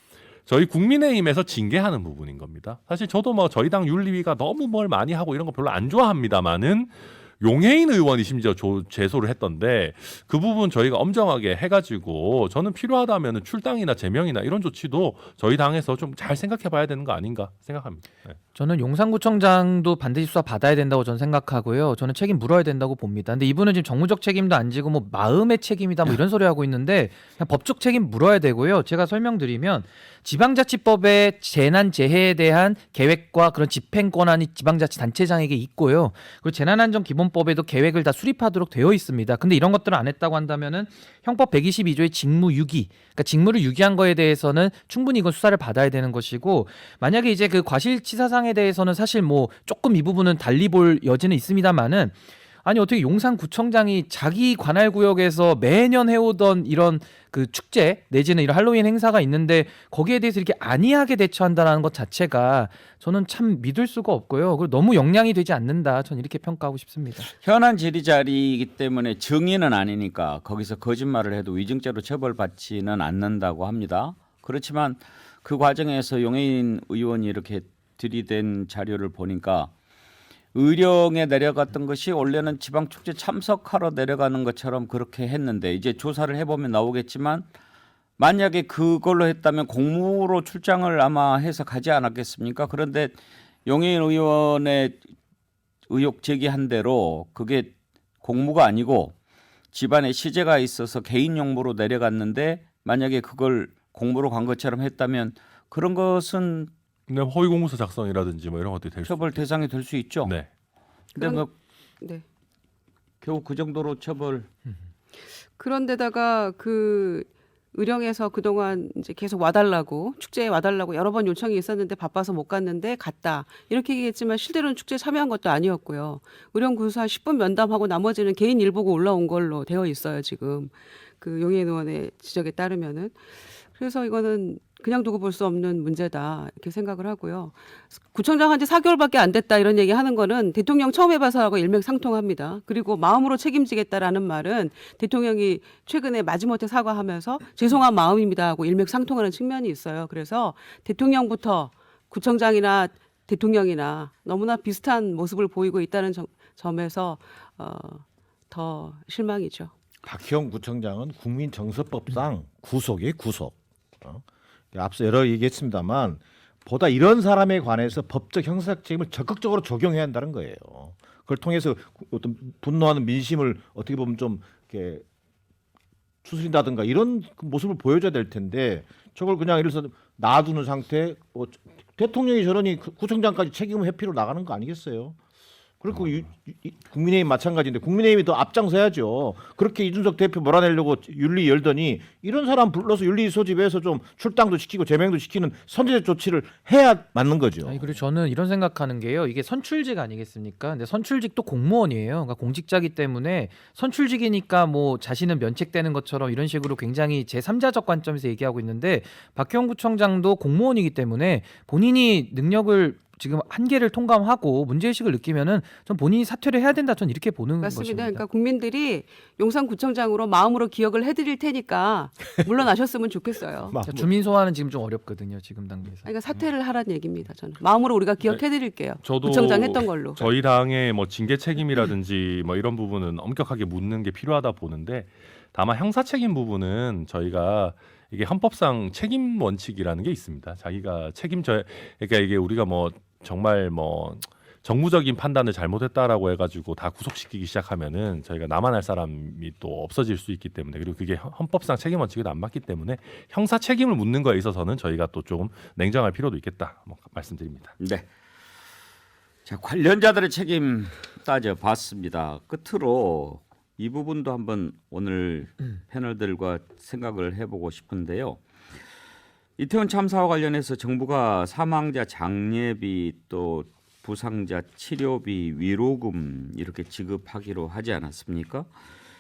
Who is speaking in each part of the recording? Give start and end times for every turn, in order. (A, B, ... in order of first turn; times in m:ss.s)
0:00.5-0:18.4 A
0:18.5-1:07.3 B
1:07.3-1:19.7 C
1:20.5-1:27.5 C
1:28.2-1:35.1 C
1:35.9-1:39.1 C
1:39.7-1:46.7 C
1:47.1-1:49.6 A
1:49.0-1:50.3 C
1:51.1-1:51.5 C
1:51.2-1:51.4 D
1:53.2-1:54.5 C
1:55.6-2:13.2 D
2:13.7-2:39.7 D
2:40.0-2:55.0 E
2:56.2-3:05.2 E
3:05.8-3:17.9 E
3:17.6-3:38.2 B
3:37.6-3:43.8 D
3:43.7-3:44.1 E
3:43.8-3:46.1 B
3:46.0-3:50.2 D
3:49.0-4:17.7 A
4:17.8-4:18.1 C
4:19.4-4:28.4 C
4:29.6-4:38.7 C